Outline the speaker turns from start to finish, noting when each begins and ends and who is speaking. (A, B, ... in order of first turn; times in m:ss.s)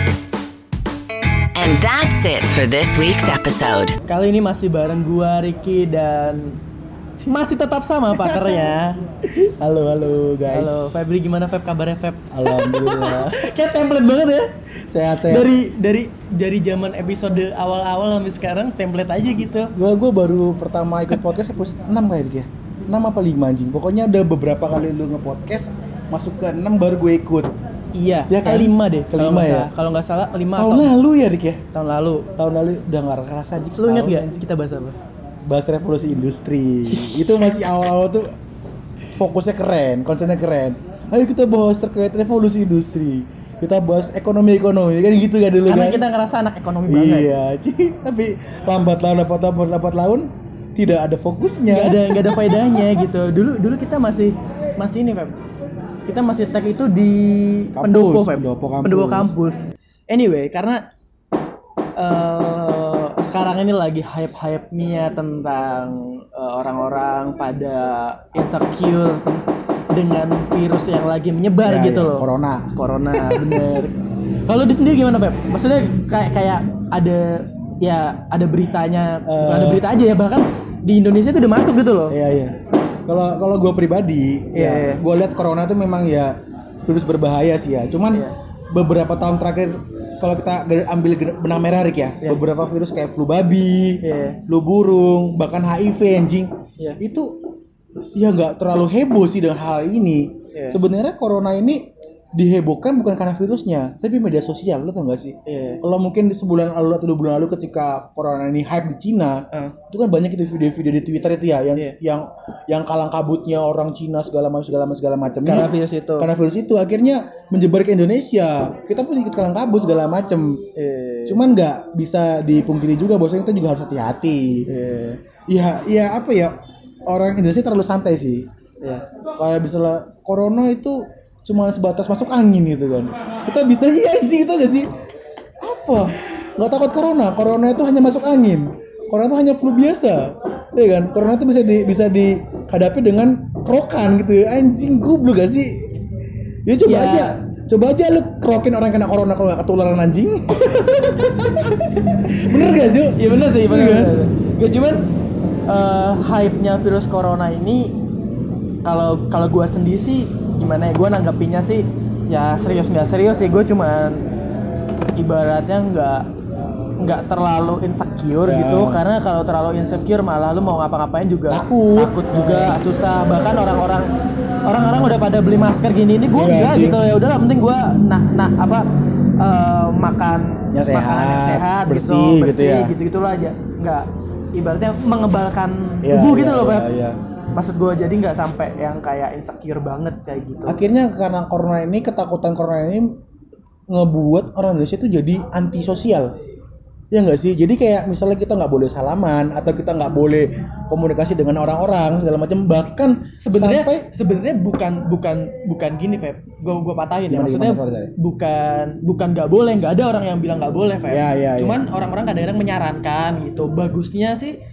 0:01.5-0:03.9 A
0:04.0-0:06.6 B
0:07.2-0:09.1 B
0:08.1-0:08.6 C
0:09.5-0:11.0 C
0:10.5-0:14.5 B
0:12.3-0:13.5 C
0:14.9-0:15.5 C
0:15.1-0:19.7 B
0:19.7-0:27.5 C
0:27.9-0:30.9 B
0:28.3-0:29.7 C
0:30.6-0:31.6 C
0:31.7-0:32.3 B
0:32.4-0:34.4 C
0:33.8-0:35.0 B
0:35.4-0:38.3 C
0:36.8-0:37.6 B
0:39.1-0:46.0 C
0:45.7-0:47.3 B
0:46.9-0:52.9 C
0:51.7-0:55.4 B
0:56.1-1:00.8 B
0:57.7-0:59.3 C
1:02.0-1:22.2 B
1:11.6-1:13.8 C
1:19.2-1:19.8 C
1:22.1-1:26.3 C
1:24.5-1:25.0 B
1:26.8-1:37.4 C
1:34.0-1:34.4 B
1:38.1-2:00.6 C
1:40.5-1:40.8 B
1:45.4-1:45.8 B
1:55.4-1:56.3 B
2:00.7-2:01.4 B
2:01.2-2:04.7 C
2:04.7-2:05.2 B
2:05.5-2:08.5 C
2:09.4-2:14.9 C
2:15.6-2:25.9 C
2:26.6-2:34.1 C
2:26.8-2:27.4 B
2:30.8-2:35.1 B
2:35.7-2:38.0 B
2:38.8-2:44.3 B
2:45.2-2:46.2 B
2:47.0-2:54.1 B
2:48.4-2:49.0 C
2:51.5-2:52.8 C
2:54.6-2:58.8 B
2:56.3-2:57.0 C
2:59.4-3:06.9 B
3:00.7-3:02.9 C
3:06.0-3:07.2 C
3:07.5-3:10.8 B
3:10.6-3:13.2 C
3:13.9-3:16.3 C
3:17.1-3:24.1 C
3:23.4-3:34.6 B
3:27.3-3:28.1 C
3:31.1-3:31.8 C